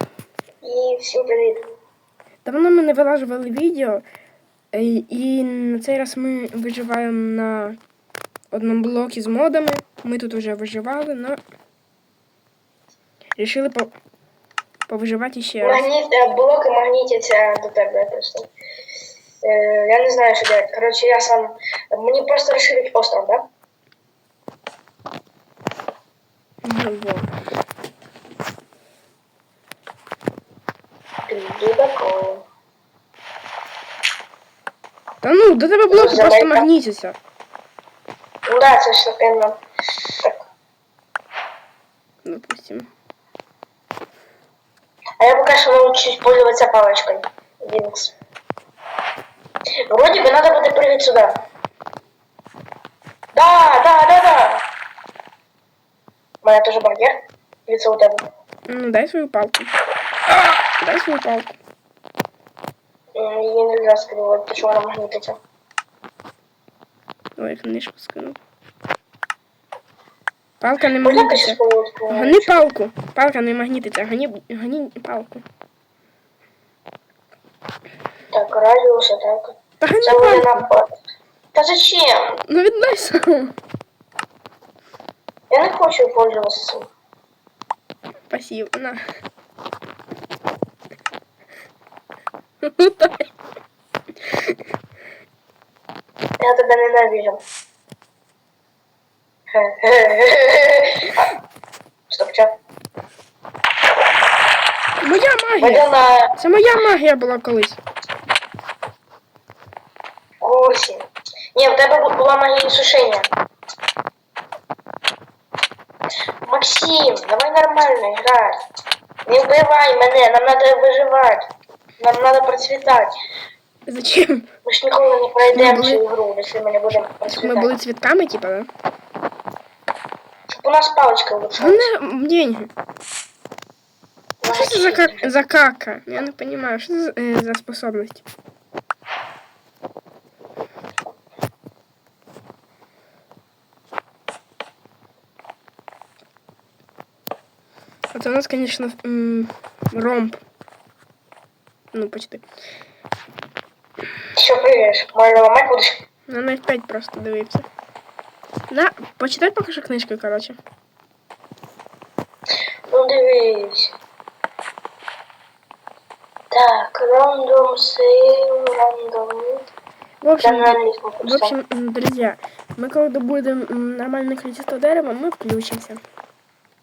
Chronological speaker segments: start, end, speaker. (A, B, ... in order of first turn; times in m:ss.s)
0:00.6-0:01.6 A
0:02.4-0:04.0 B
0:04.7-0:07.8 B
0:08.5-0:11.4 B
0:13.4-0:13.9 B
0:14.9-0:15.9 B
0:15.6-0:18.5 A
0:19.4-0:23.5 A
0:26.6-0:27.3 B
0:31.3-0:32.4 A
0:35.2-0:37.2 B
0:35.9-0:36.7 A
0:38.5-0:39.6 A
0:40.2-0:40.4 A
0:42.2-0:42.9 B
0:45.2-0:48.1 A
0:49.8-0:51.4 A
0:53.3-0:54.6 A
0:56.4-0:58.2 A
0:58.7-0:59.7 B
1:00.3-1:01.6 B
1:03.2-1:05.4 A
1:07.4-1:08.4 B
1:10.6-1:11.6 B
1:11.0-1:12.6 A
1:12.1-1:15.4 B
1:18.3-1:20.9 A
1:19.8-1:20.7 B
1:21.5-1:22.4 A
1:22.5-1:23.6 B
1:25.5-1:26.9 A
1:28.3-1:29.0 B
1:32.6-1:33.3 B
1:36.4-1:37.4 A
1:39.5-1:41.3 A
1:42.1-1:42.5 A
1:45.0-1:45.9 B
1:45.6-1:46.3 A
1:46.4-1:47.8 B
1:50.4-1:53.3 A
1:56.4-1:58.6 A
1:59.3-2:01.5 A
2:02.0-2:03.1 A
2:03.9-2:04.5 B
2:04.6-2:07.7 A
2:05.4-2:06.0 B
2:07.2-2:08.7 B
2:10.5-2:11.9 A
2:11.6-2:12.7 B
2:14.4-2:15.3 A
2:14.5-2:18.2 B
2:28.1-2:30.4 B
2:31.9-2:32.4 B
2:34.4-2:36.0 A
2:36.3-2:37.7 B
2:38.7-2:40.6 B
2:42.9-2:43.9 A
2:46.5-2:49.7 A
2:50.2-2:56.0 B
2:50.4-2:51.5 A